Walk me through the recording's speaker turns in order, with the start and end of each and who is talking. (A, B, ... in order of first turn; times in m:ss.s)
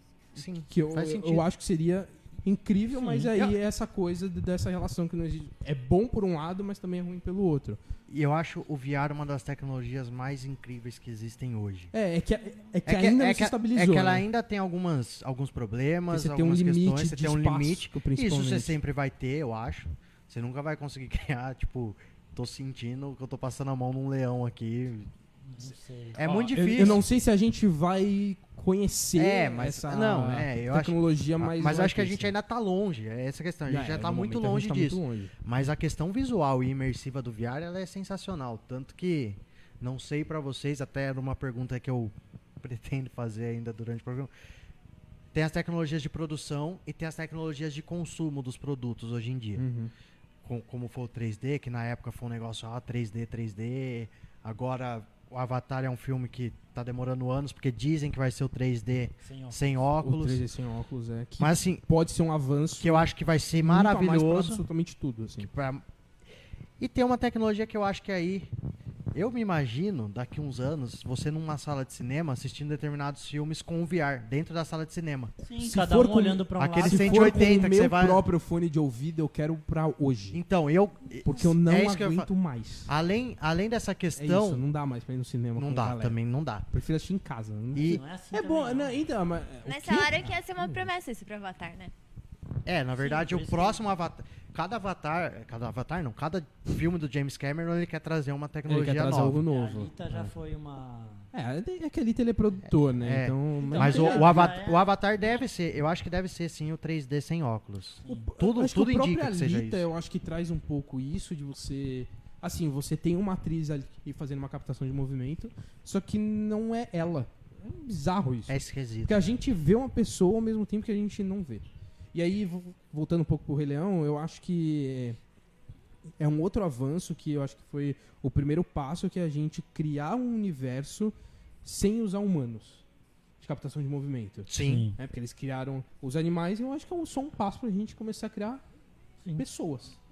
0:00.3-0:01.5 A
0:00.6-0:07.8 B
0:03.0-0:03.4 C
0:08.1-0:11.9 A
0:11.9-0:14.2 B
0:12.8-0:25.1 A
0:16.1-0:18.8 B
0:25.5-0:27.0 C
0:26.2-0:27.0 A
0:26.5-0:32.3 B
0:29.2-0:44.3 A
0:33.7-0:35.3 B
0:45.3-0:49.6 A
0:49.6-0:49.9 B
0:50.4-1:00.4 A
0:59.2-0:59.6 C
1:00.0-1:05.5 B
1:01.4-1:01.8 A
1:02.8-1:04.6 A
1:05.4-1:05.8 A
1:06.8-1:08.5 A
1:09.1-1:15.3 A
1:15.4-1:17.5 C
1:15.6-1:20.4 B
1:16.6-1:18.2 A
1:20.3-1:22.3 A
1:21.2-1:22.9 B
1:22.9-1:24.6 A
1:24.2-1:26.2 B
1:25.6-1:26.7 A
1:26.7-1:30.9 B
1:27.7-1:28.0 A
1:27.8-1:29.1 C
1:29.6-1:31.9 D
1:32.6-1:39.4 A
1:33.0-1:33.8 C
1:38.7-1:40.3 B
1:39.5-1:41.3 C
1:41.3-1:44.6 B
1:42.7-1:49.9 A
1:43.6-1:44.9 C
1:48.1-2:05.2 B
1:58.5-1:59.4 A
2:06.2-2:12.8 B
2:13.4-2:18.6 B
2:14.5-2:14.9 A
2:14.6-2:15.0 C
2:19.4-2:20.0 B